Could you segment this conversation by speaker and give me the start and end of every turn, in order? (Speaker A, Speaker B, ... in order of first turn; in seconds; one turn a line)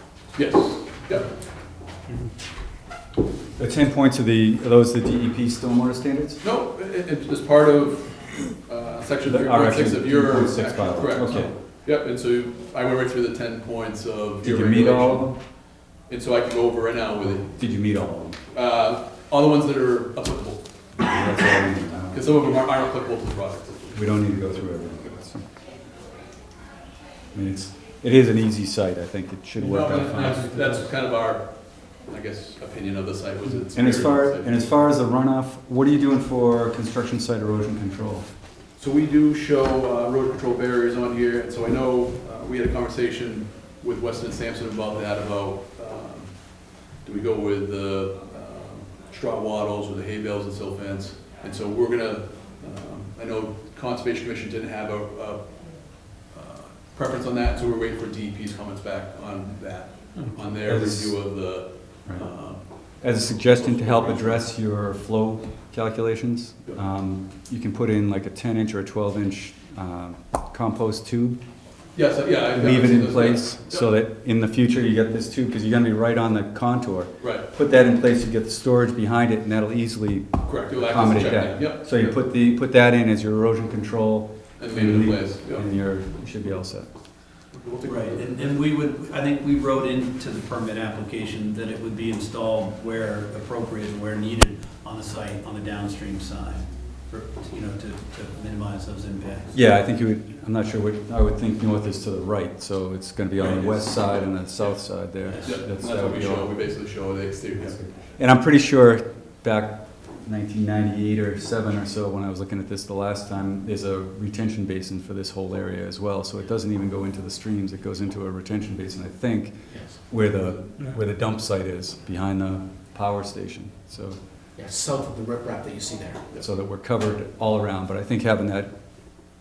Speaker A: 0.3-1.3
Speaker B: 3.6-6.4
Speaker A: 6.4-15.3
Speaker B: 9.2-11.5
Speaker B: 14.4-15.4
Speaker A: 16.1-17.5
Speaker B: 17.3-18.4
Speaker A: 18.5-20.7
Speaker B: 21.0-22.2
Speaker A: 22.1-24.0
Speaker B: 23.9-25.4
Speaker B: 27.3-30.6
Speaker A: 29.6-34.8
Speaker B: 33.7-38.3
Speaker A: 38.8-62.6
Speaker B: 60.6-61.3
Speaker B: 63.0-71.4
Speaker A: 63.2-64.5
Speaker A: 72.0-73.9
Speaker B: 72.5-86.9
Speaker A: 77.2-77.5
Speaker A: 80.5-82.2
Speaker A: 84.6-85.7
Speaker A: 87.5-88.6
Speaker C: 87.8-99.6
Speaker B: 99.5-106.5
Speaker A: 103.4-107.8
Speaker C: 105.2-105.5
Speaker B: 107.8-124.2
Speaker D: 119.7-120.0
Speaker D: 124.6-126.3
Speaker B: 126.4-128.8